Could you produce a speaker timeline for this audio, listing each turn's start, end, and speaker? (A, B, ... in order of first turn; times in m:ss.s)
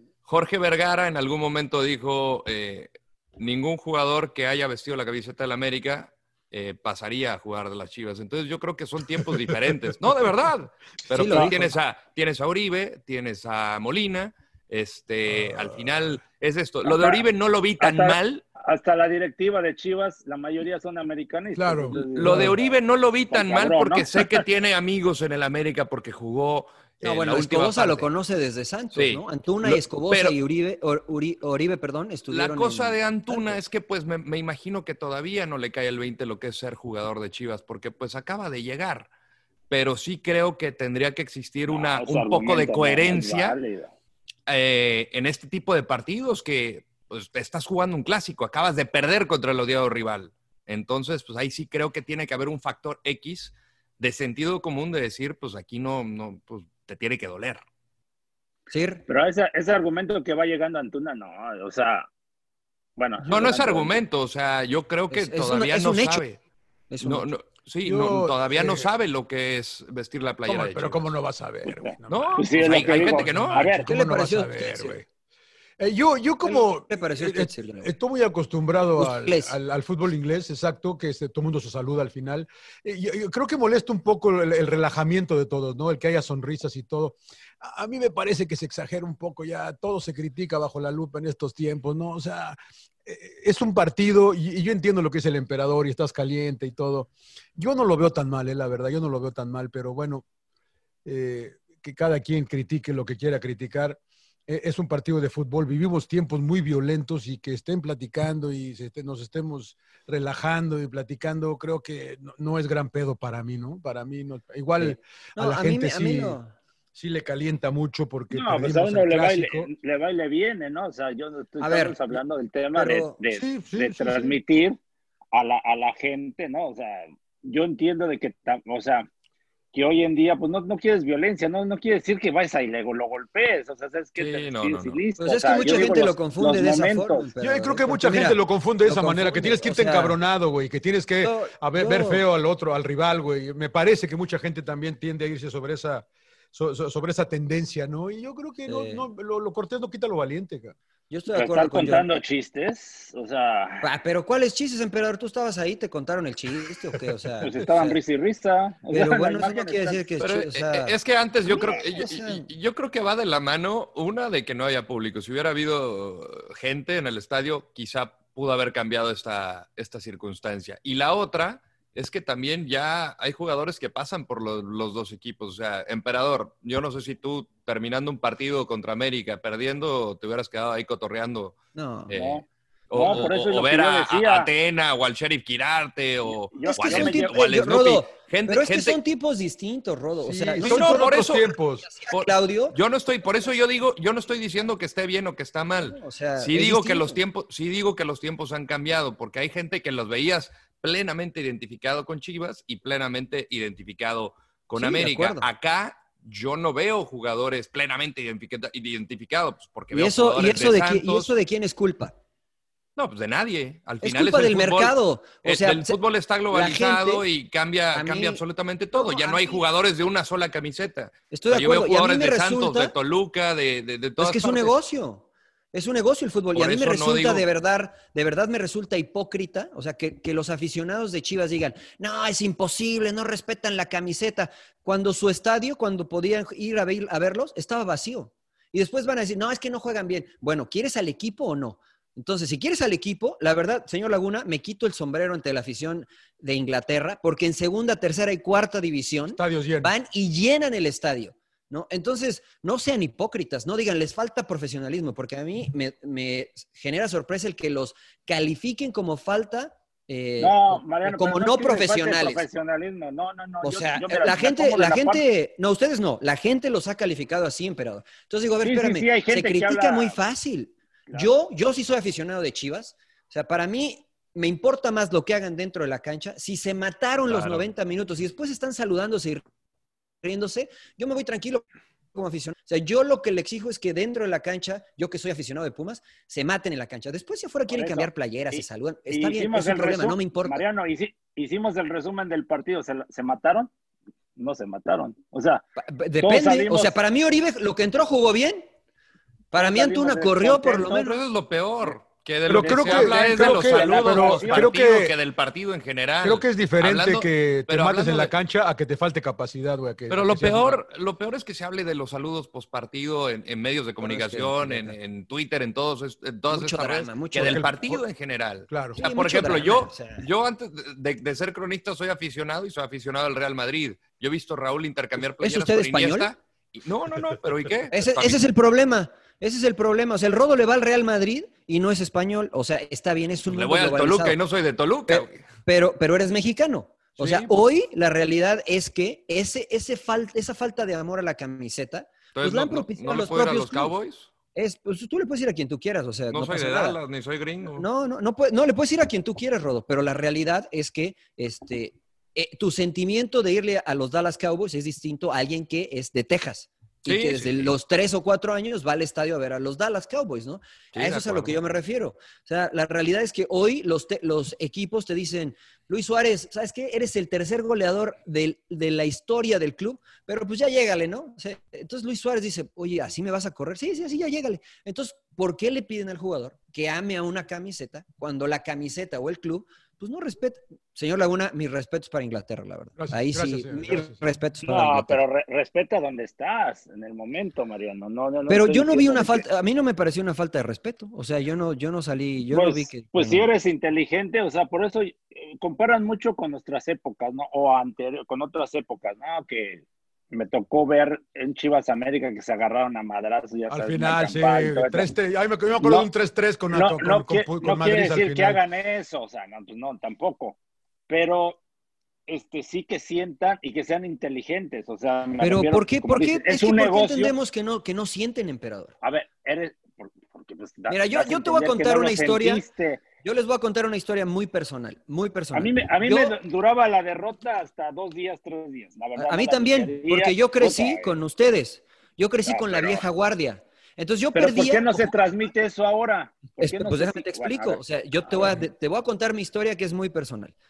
0:00.3-0:18.4 A
0:11.1-0:11.7 B
0:15.3-0:16.2 C
0:16.8-0:17.2 D
0:17.8-0:22.8 D
0:21.6-0:22.6 C
0:21.9-0:28.1 A
0:23.3-0:24.4 D
0:27.0-0:33.6 B
0:29.0-0:30.4 A
0:32.3-0:39.1 A
0:39.7-0:43.6 A
0:41.7-0:43.9 D
0:44.5-0:57.6 A
0:58.7-0:59.0 B
0:59.1-1:02.1 D
1:03.0-1:04.0 D
1:03.2-1:06.4 A
1:05.1-1:06.2 B
1:06.9-1:07.3 B
1:07.0-1:11.1 A
1:07.8-1:08.9 C
1:10.5-1:15.1 C
1:11.7-1:13.9 D
1:12.1-1:13.7 A
1:13.9-1:15.0 B
1:15.8-1:40.2 C
1:16.4-1:17.9 B
1:19.0-1:19.5 B
1:41.0-1:56.4 C
1:54.8-1:56.5 B
1:56.9-1:59.7 C
1:58.3-2:04.8 D
2:01.6-2:02.2 B
2:02.8-2:03.2 B
2:03.3-2:04.4 C
2:05.3-2:09.1 D
2:09.7-2:17.3 D
2:14.2-2:15.0 A
2:15.2-2:20.2 B
2:17.4-2:30.8 C
2:21.2-2:22.2 B
2:28.7-2:29.0 B
2:31.1-2:32.1 B
2:31.3-2:33.9 D
2:33.8-2:38.0 B
2:37.4-2:40.0 D
2:38.9-2:42.5 B
2:40.2-3:01.6 A
3:01.8-3:02.1 B
3:02.1-3:09.0 A
3:02.1-3:04.5 D
3:06.5-3:07.4 D
3:06.6-3:11.2 B
3:10.2-3:11.9 C
3:10.6-3:11.6 A
3:11.9-3:12.8 B
3:12.1-3:31.3 A
3:15.8-3:17.2 B
3:24.8-3:25.5 B
3:29.9-3:32.2 B
3:33.0-3:44.7 A
3:34.0-3:36.0 B
3:36.5-3:37.2 B
3:37.9-3:38.4 B
3:39.0-3:39.6 B
3:41.3-3:42.9 B
3:44.2-4:22.4 B
3:46.5-3:47.5 A
4:09.3-4:09.9 C
4:20.4-4:25.2 D
4:23.6-4:39.4 B
4:28.6-4:30.2 D
4:37.3-4:37.7 A
4:40.2-4:50.6 B
4:47.7-4:53.7 D
4:54.4-4:55.6 D
4:55.8-4:58.7 B
4:56.2-4:57.0 D
4:59.5-5:01.2 B
4:59.5-5:01.0 D
5:00.9-5:08.3 A
5:02.5-5:05.2 C
5:02.6-5:04.7 D
5:06.2-5:10.8 C
5:10.1-5:28.5 A
5:14.0-5:15.0 B
5:16.5-5:17.7 B
5:17.4-5:18.0 C
5:18.7-5:19.0 C
5:19.0-5:20.3 B
5:25.4-5:26.3 B
5:27.9-5:34.4 B
5:33.5-5:35.4 A
5:35.1-5:43.9 B
5:37.2-5:37.5 A
5:42.3-5:44.3 A
5:44.6-5:47.0 B
5:46.3-5:47.9 A
5:47.7-6:25.2 B
5:57.1-5:57.7 A
6:00.9-6:01.6 A
6:23.0-6:24.2 C
6:24.6-6:29.4 D
6:28.5-6:33.5 B
6:32.5-6:45.1 D
6:43.7-6:48.6 C
6:45.8-6:46.1 D
6:46.7-6:50.6 D
6:51.1-6:51.6 D
6:52.3-6:57.3 D
6:55.4-6:58.9 B
6:59.0-7:03.0 D
7:00.9-7:02.6 B
7:03.2-7:06.4 B
7:05.5-7:11.2 D
7:09.2-7:15.1 B
7:12.5-7:13.0 D
7:14.4-7:18.6 D
7:16.6-7:20.5 B